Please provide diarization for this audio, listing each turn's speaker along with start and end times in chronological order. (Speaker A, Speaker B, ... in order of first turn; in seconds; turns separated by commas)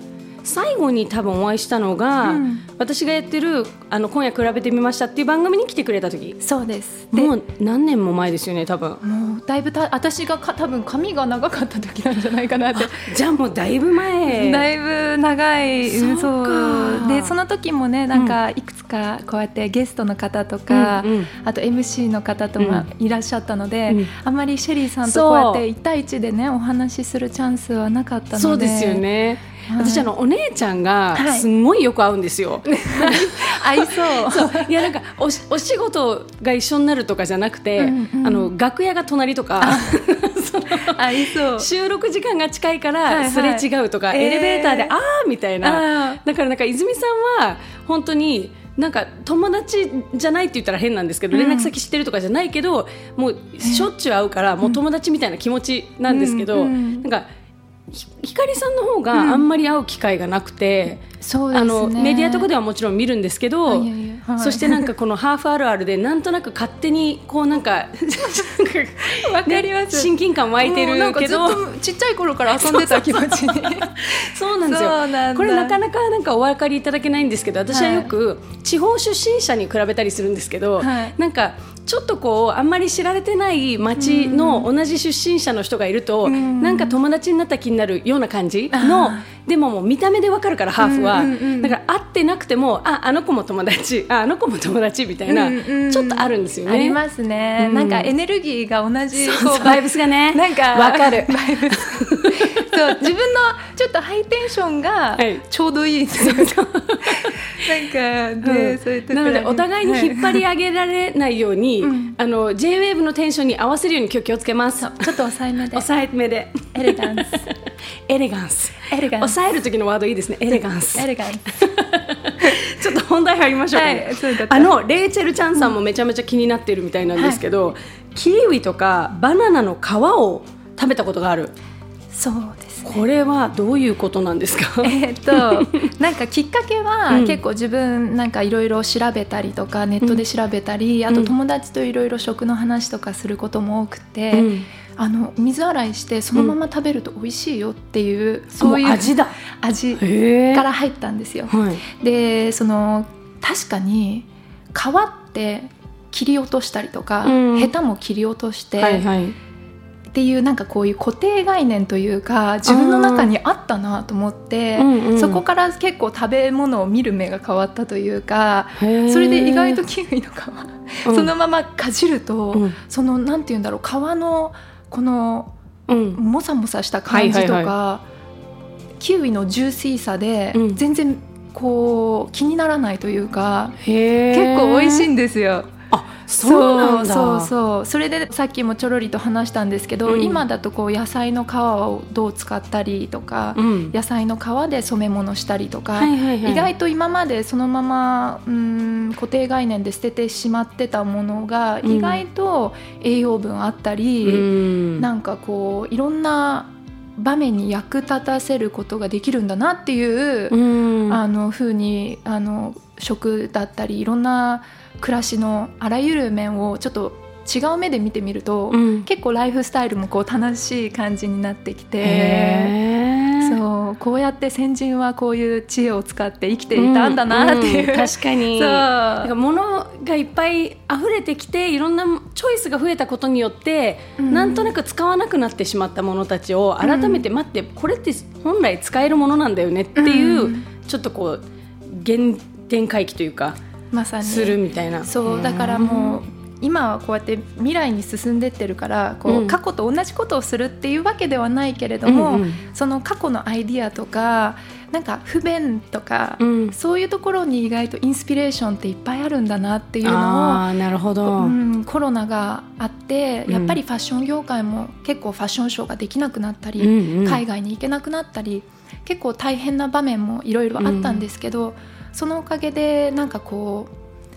Speaker A: 0.4-6.4, Speaker B: 2.2-2.6, Speaker B: 6.4-7.3, Speaker A: 7.1-9.0, Speaker B: 9.0-13.1, Speaker A: 12.8-14.7, Speaker B: 14.3-29.0, Speaker A: 15.8-17.3, Speaker A: 20.7-21.3, Speaker A: 22.6-22.9, Speaker A: 25.1-25.6, Speaker A: 28.3-57.2, Speaker B: 29.7-30.1, Speaker B: 31.1-31.4, Speaker B: 32.8-34.7, Speaker B: 37.8-38.5, Speaker B: 39.6-40.0, Speaker B: 40.9-41.7, Speaker B: 43.1-44.9, Speaker B: 45.6-46.2, Speaker B: 51.3-51.7, Speaker B: 53.6-53.9, Speaker B: 56.1-57.0, Speaker A: 57.9-71.6, Speaker B: 59.1-59.4, Speaker B: 61.2-62.5, Speaker B: 63.7-64.9, Speaker B: 69.0-70.1, Speaker B: 70.6-75.7, Speaker A: 72.5-97.0, Speaker B: 77.7-78.1, Speaker B: 80.8-81.1, Speaker B: 84.0-84.7, Speaker B: 86.2-87.0, Speaker B: 88.7-89.2, Speaker B: 90.8-91.8, Speaker B: 95.3-99.8, Speaker A: 97.6-98.1, Speaker A: 99.1-102.6, Speaker B: 100.3-110.4, Speaker A: 105.2-105.4, Speaker A: 106.2-107.3, Speaker A: 108.4-115.1, Speaker B: 111.8-112.2, Speaker B: 114.8-115.8, Speaker A: 115.7-117.5, Speaker B: 116.7-117.4, Speaker A: 118.1-131.5, Speaker B: 118.9-119.3, Speaker B: 120.5-121.5, Speaker B: 123.7-124.7, Speaker B: 132.1-133.0, Speaker A: 132.8-135.9, Speaker B: 134.8-159.0, Speaker A: 137.1-137.4, Speaker A: 144.3-144.7, Speaker A: 148.6-149.3, Speaker A: 150.0-150.7, Speaker A: 151.5-151.8, Speaker A: 157.2-157.7, Speaker A: 158.8-159.3, Speaker B: 160.1-175.5, Speaker A: 162.7-163.3, Speaker A: 164.8-165.4, Speaker A: 168.8-169.8, Speaker A: 171.1-171.3, Speaker A: 175.9-176.2, Speaker B: 176.1-178.1, Speaker A: 177.1-177.7, Speaker B: 179.0-183.8, Speaker A: 180.5-180.8, Speaker A: 183.8-185.1, Speaker B: 184.3-185.7, Speaker A: 185.9-187.5, Speaker B: 186.4-210.6, Speaker A: 190.1-190.4, Speaker A: 193.5-193.9, Speaker A: 196.0-196.7, Speaker A: 201.8-202.2, Speaker A: 204.2-205.1, Speaker A: 210.5-211.2, Speaker B: 211.1-222.7, Speaker A: 218.7-219.1, Speaker A: 222.0-223.6, Speaker B: 223.4-229.3, Speaker A: 226.7-243.6, Speaker B: 234.2-234.7, Speaker B: 236.8-237.2, Speaker B: 239.9-240.7, Speaker B: 243.9-260.6, Speaker A: 244.2-246.2, Speaker A: 249.2-249.6, Speaker A: 252.0-252.6, Speaker A: 256.4-256.7, Speaker A: 260.0-261.5, Speaker B: 261.3-273.9, Speaker A: 263.5-263.8, Speaker A: 266.8-267.4, Speaker A: 270.8-271.2